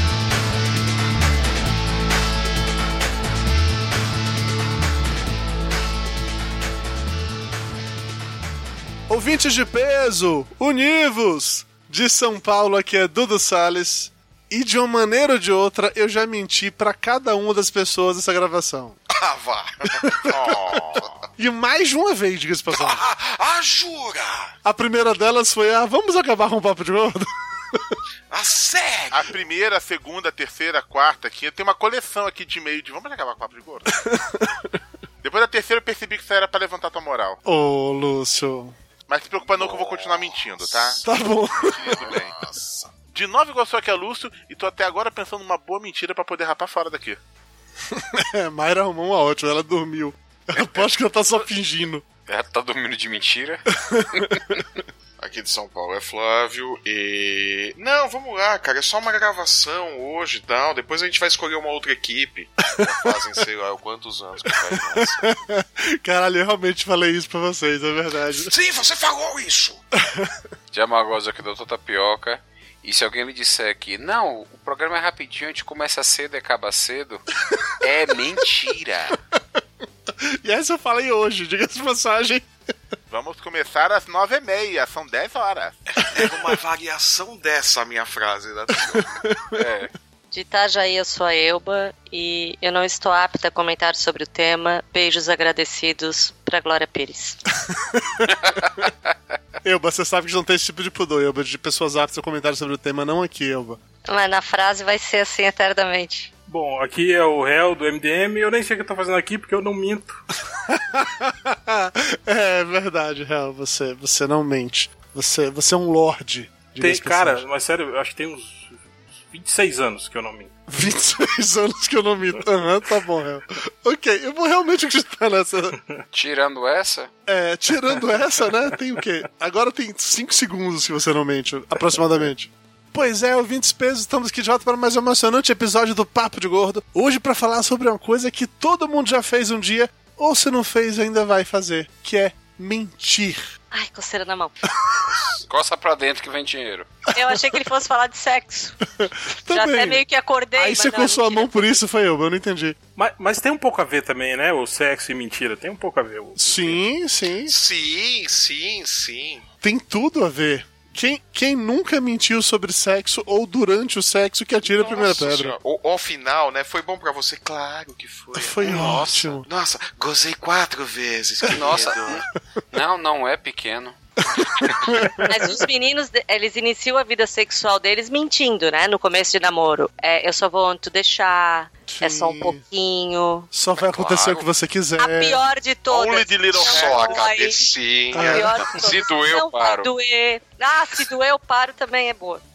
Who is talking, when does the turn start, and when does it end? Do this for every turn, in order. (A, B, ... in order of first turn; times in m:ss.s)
0:09.1-0:19.0 A
0:19.1-0:21.2 B
0:20.0-0:20.4 A
0:20.3-0:21.1 C
0:21.4-0:23.0 A
0:22.7-0:24.5 B
0:24.6-0:28.0 A
0:28.3-0:29.4 B
0:29.1-0:33.9 C
0:33.9-0:34.8 A
0:35.2-0:37.4 C
0:37.5-0:38.8 A
0:39.1-0:41.0 C
0:39.5-0:41.0 B
0:41.0-0:42.0 A
0:41.6-0:42.9 B
0:41.7-0:42.4 C
0:43.1-0:47.2 C
0:47.9-0:52.0 A
0:50.6-0:50.9 D
0:52.3-0:53.6 D
0:53.7-0:54.6 A
0:55.2-1:05.2 B
1:02.7-1:03.2 A
1:04.5-1:08.5 A
1:08.3-1:09.8 B
1:10.0-1:10.4 A
1:10.7-1:17.2 D
1:17.8-1:19.2 D
1:20.2-1:22.5 A
1:23.1-1:25.8 C
1:26.0-1:29.1 B
1:28.9-1:29.6 A
1:29.6-1:29.9 D
1:30.3-1:37.4 E
1:37.6-1:38.9 A
1:39.6-1:43.8 A
1:44.1-1:46.3 E
1:46.5-1:50.2 F
1:50.5-1:57.4 A
1:56.8-1:58.8 F
1:59.3-2:00.5 F
2:00.7-2:05.8 A
2:06.1-2:07.1 D
2:07.3-2:23.5 A
2:23.7-2:24.7 E
2:25.0-2:25.4 B
2:25.5-2:26.9 D
2:27.1-2:28.8 E
2:29.0-2:30.0 A
2:29.5-2:31.8 E
2:30.6-2:32.8 A
2:33.0-2:36.8 F
2:36.4-2:37.6 A
2:37.5-2:39.4 B
2:39.6-2:45.6 A
2:44.7-2:52.2 B
2:48.3-2:49.5 A
2:51.5-2:54.0 D
2:54.3-2:55.6 A
2:55.2-3:03.5 E
3:01.9-3:02.6 A
3:03.5-3:05.5 A
3:03.8-3:04.5 B
3:05.0-3:12.4 E
3:05.9-3:07.3 C
3:06.5-3:08.7 B
3:08.1-3:08.6 A
3:08.7-3:09.9 D